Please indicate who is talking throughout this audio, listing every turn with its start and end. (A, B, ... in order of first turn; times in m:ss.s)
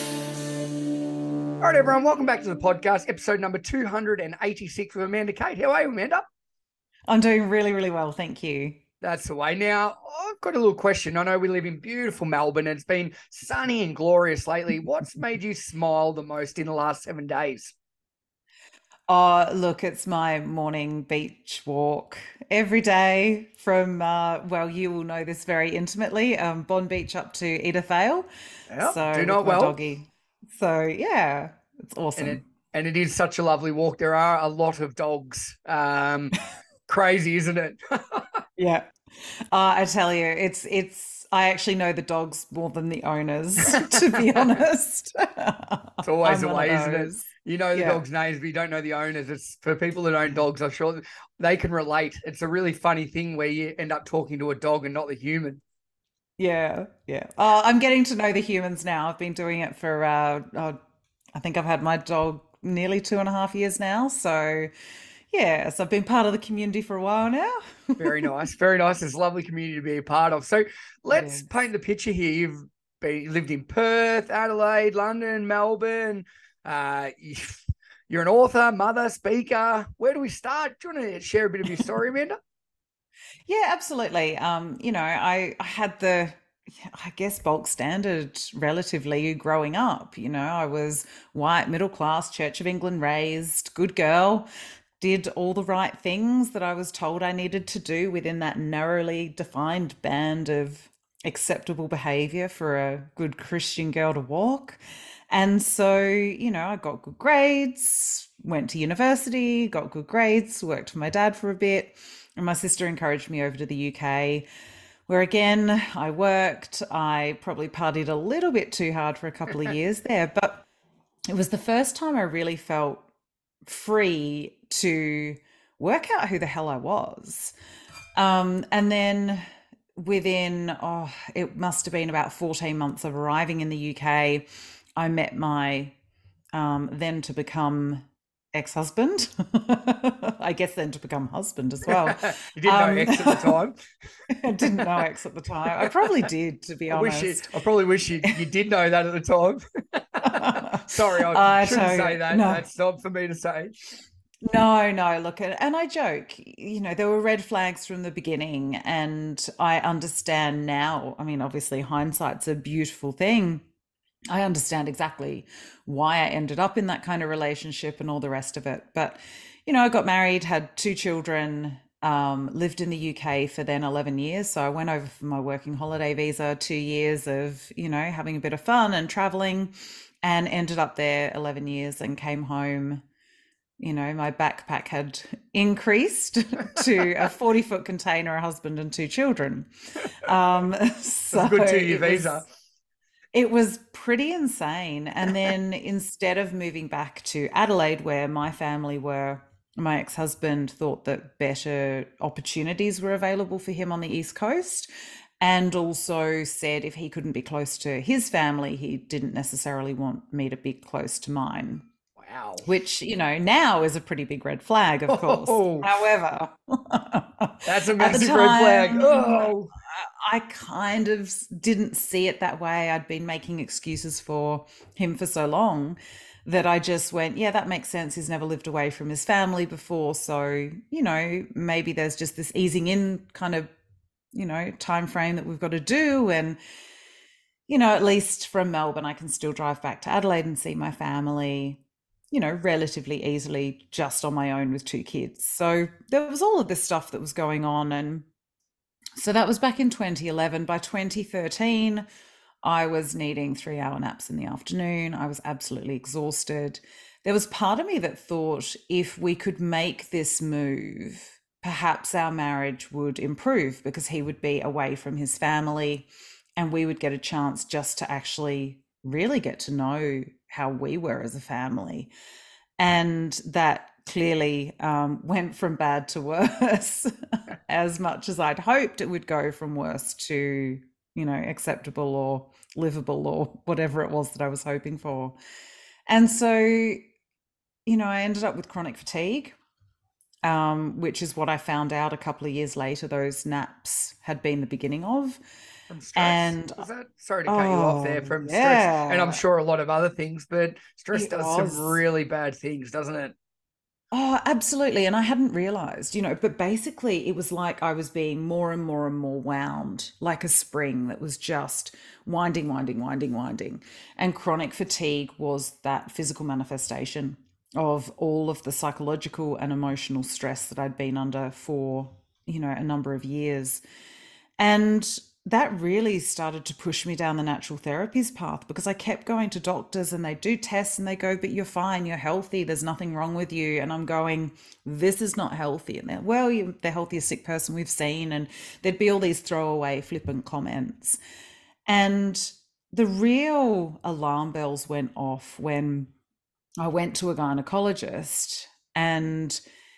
0:01.6-0:06.2 A
0:07.1-0:08.8 B
0:09.0-0:17.7 A
0:19.1-0:28.3 B
0:28.7-0:29.8 A
0:28.8-0:32.4 B
0:32.2-0:36.3 A
0:36.9-0:38.4 A
0:38.6-0:38.8 B
0:39.5-0:48.0 B
0:43.7-0:44.6 A
0:46.0-0:55.6 A
0:56.4-1:00.8 B
1:01.3-1:04.7 B
1:05.3-1:08.3 B
1:08.0-1:22.4 A
1:11.1-1:11.5 B
1:23.5-1:34.5 B
1:35.0-1:44.8 B
1:45.3-1:54.4 B
1:55.1-2:00.6 B
2:01.3-2:03.1 B
2:03.6-2:07.5 B
2:08.2-2:14.4 B
2:15.0-2:15.9 B
2:16.5-2:23.6 B
2:21.9-2:23.8 A
2:24.3-2:27.5 B
2:24.6-2:25.0 A
2:25.7-2:26.1 A
2:26.9-2:33.8 A
2:30.2-2:32.6 B
2:34.4-2:43.6 B
2:44.3-3:03.0 B
3:03.8-3:12.4 B
3:11.3-3:12.5 A
3:13.3-3:24.9 B
3:25.4-3:31.8 B
3:32.2-3:32.6 A
3:32.6-3:53.7 B
3:35.1-3:35.9 A
3:37.6-3:39.7 A
3:54.3-3:56.6 B
3:57.7-4:08.3 B
4:09.2-4:12.0 B
4:12.6-4:32.1 B
4:32.8-4:37.1 B
4:37.7-4:45.4 B
4:46.1-4:47.0 B
4:47.8-4:49.6 B
4:50.4-4:55.4 B
4:55.9-5:03.3 A
4:56.1-4:56.8 B
4:57.5-4:59.4 B
5:01.1-5:02.0 B
5:04.1-5:23.8 B
5:24.6-5:41.2 B
5:41.9-5:46.1 B
5:46.8-5:49.6 B